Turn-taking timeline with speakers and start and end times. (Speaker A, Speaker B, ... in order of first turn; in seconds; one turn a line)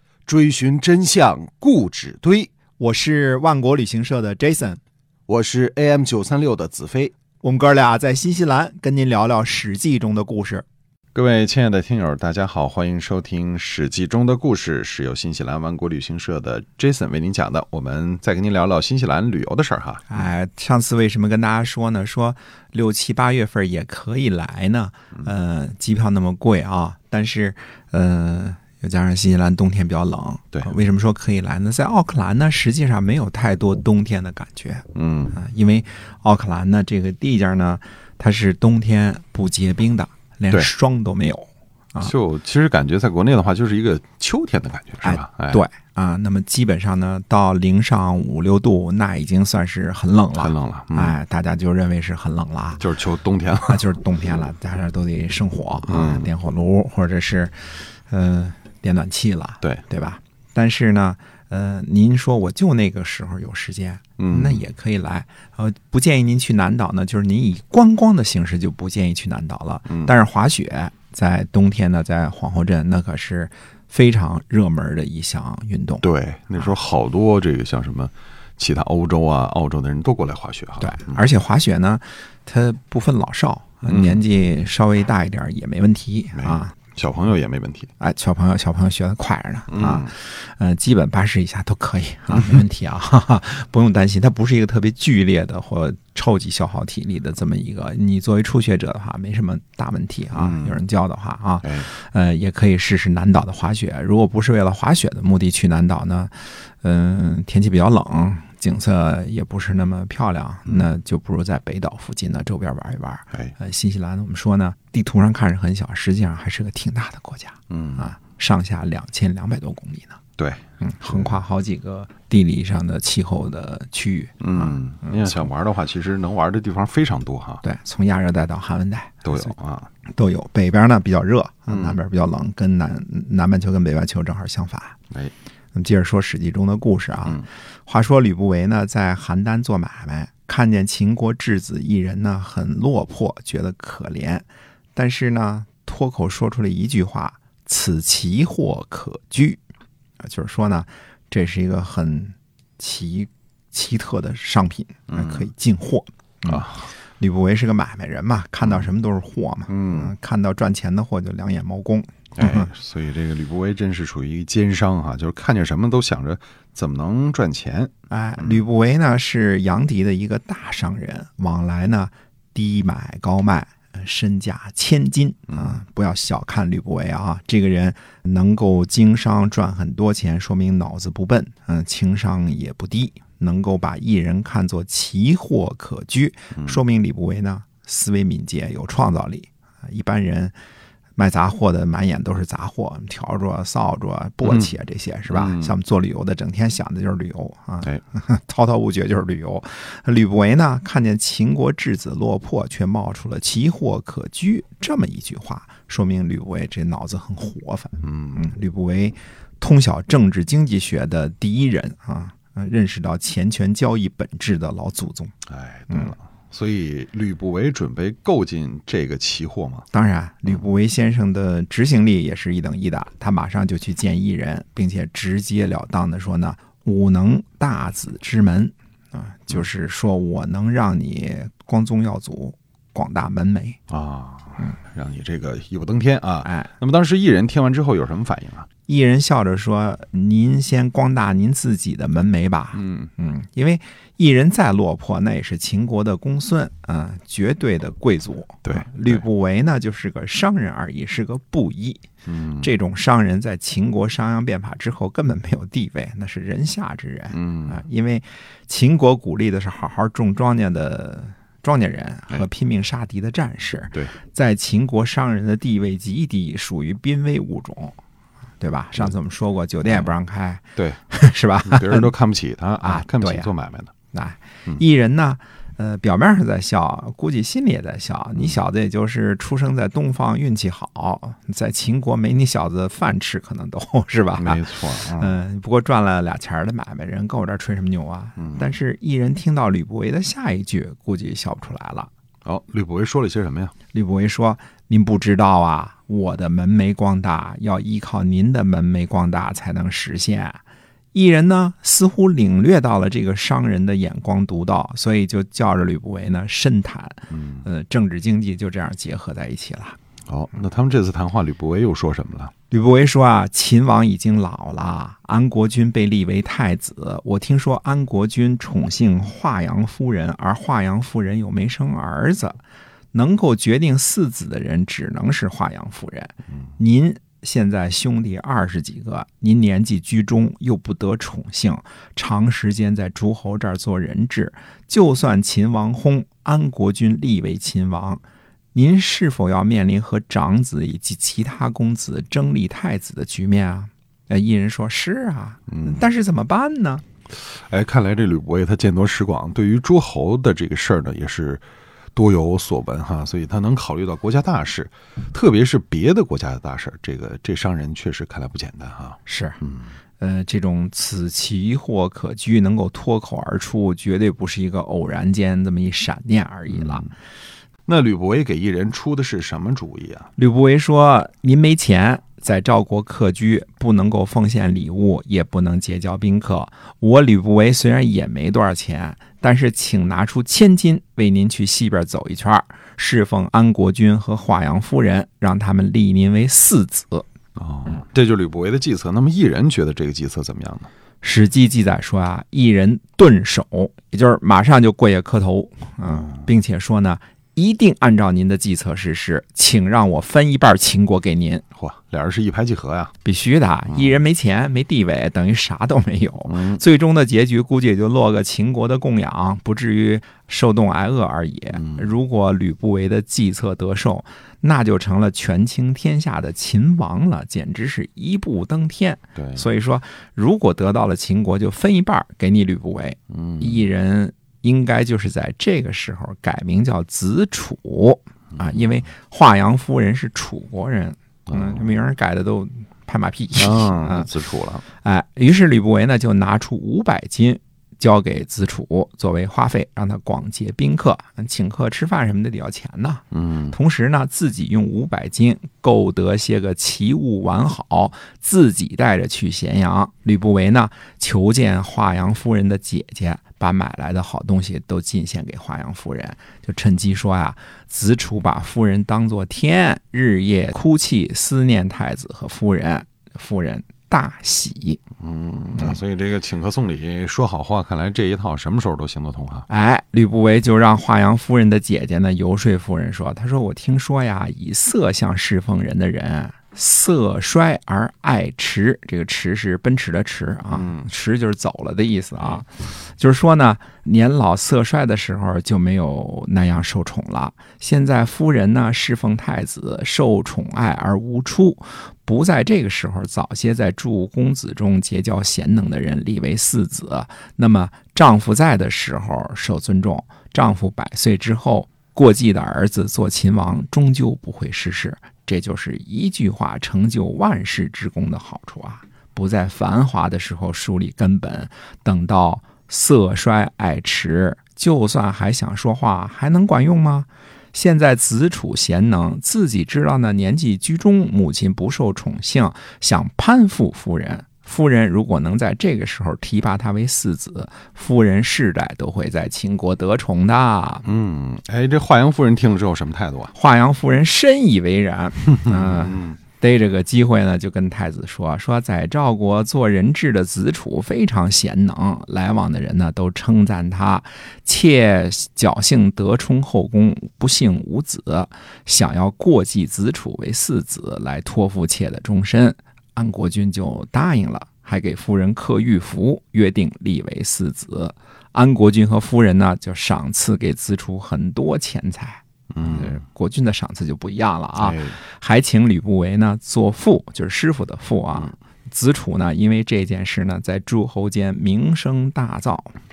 Speaker A: 0.3-2.5
Speaker B: 2.8-4.8
Speaker A: 5.3-7.1
Speaker B: 7.4-10.7
Speaker C: 11.2-20.2
Speaker B: 20.1-42.1
Speaker C: 34.9-35.4
Speaker C: 42.0-45.6
Speaker B: 45.0-52.9
Speaker C: 50.4-51.2
Speaker C: 52.8-53.9
Speaker B: 53.7-76.0
Speaker C: 55.9-56.3
Speaker C: 64.2-64.6
Speaker C: 76.0-81.2
Speaker B: 80.8-86.8
Speaker C: 83.9-84.2
Speaker C: 86.3-87.9
Speaker B: 88.0-120.2
Speaker C: 89.7-90.1
Speaker C: 92.3-92.6
Speaker C: 100.3-100.8
Speaker C: 101.6-101.9
Speaker C: 117.7-118.1
Speaker C: 120.4-121.4
Speaker B: 120.8-125.1
Speaker C: 124.4-127.6
Speaker B: 127.6-129.5
Speaker C: 129.2-129.9
Speaker B: 130.1-135.0
Speaker C: 131.7-132.0
Speaker B: 135.7-149.6
Speaker B: 150.2-162.7
Speaker C: 155.1-155.5
Speaker C: 156.5-156.8
Speaker C: 159.7-160.1
Speaker C: 162.4-168.6
Speaker B: 168.1-190.5
Speaker B: 191.2-215.3
Speaker C: 194.4-194.8
Speaker C: 195.3-195.8
Speaker C: 208.0-208.5
Speaker C: 215.5-219.9
Speaker B: 219.9-233.8
Speaker C: 233.9-238.7
Speaker B: 238.9-252.0
Speaker C: 242.7-243.1
Speaker C: 248.7-249.2
Speaker C: 252.2-252.7
Speaker B: 252.6-268.0
Speaker C: 257.3-257.8
Speaker B: 268.6-272.1
Speaker C: 269.9-270.1
Speaker C: 270.8-271.0
Speaker C: 271.6-273.9
Speaker B: 272.8-273.5
Speaker B: 274.1-292.1
Speaker C: 284.4-285.4
Speaker C: 288.4-288.7
Speaker C: 292.4-293.7
Speaker B: 293.9-300.6
Speaker B: 301.1-310.0
Speaker C: 307.3-307.7
Speaker C: 310.3-312.5
Speaker B: 312.7-322.6
Speaker B: 323.1-338.2
Speaker B: 338.7-347.0
Speaker C: 345.7-346.1
Speaker C: 347.4-351.6
Speaker C: 352.2-359.9
Speaker B: 359.3-359.6
Speaker B: 360.2-367.1
Speaker C: 366.7-367.1
Speaker C: 367.9-370.3
Speaker B: 370.4-387.2
Speaker C: 387.6-390.9
Speaker B: 391.2-401.6
Speaker C: 396.1-396.4
Speaker C: 401.8-403.1
Speaker B: 403.2-434.3
Speaker C: 403.9-404.2
Speaker C: 406.5-406.8
Speaker C: 411.7-412.1
Speaker C: 419.4-419.6
Speaker C: 423.3-423.9
Speaker C: 428.6-428.8
Speaker C: 431.5-431.9
Speaker C: 433.6-434.9
Speaker B: 435.0-465.0
Speaker C: 443.3-443.8
Speaker C: 465.2-469.7
Speaker B: 469.7-531.0
Speaker C: 480.7-481.1
Speaker C: 531.0-533.5
Speaker B: 533.5-572.9
Speaker C: 535.6-536.4
Speaker C: 562.7-563.2
Speaker C: 564.8-565.2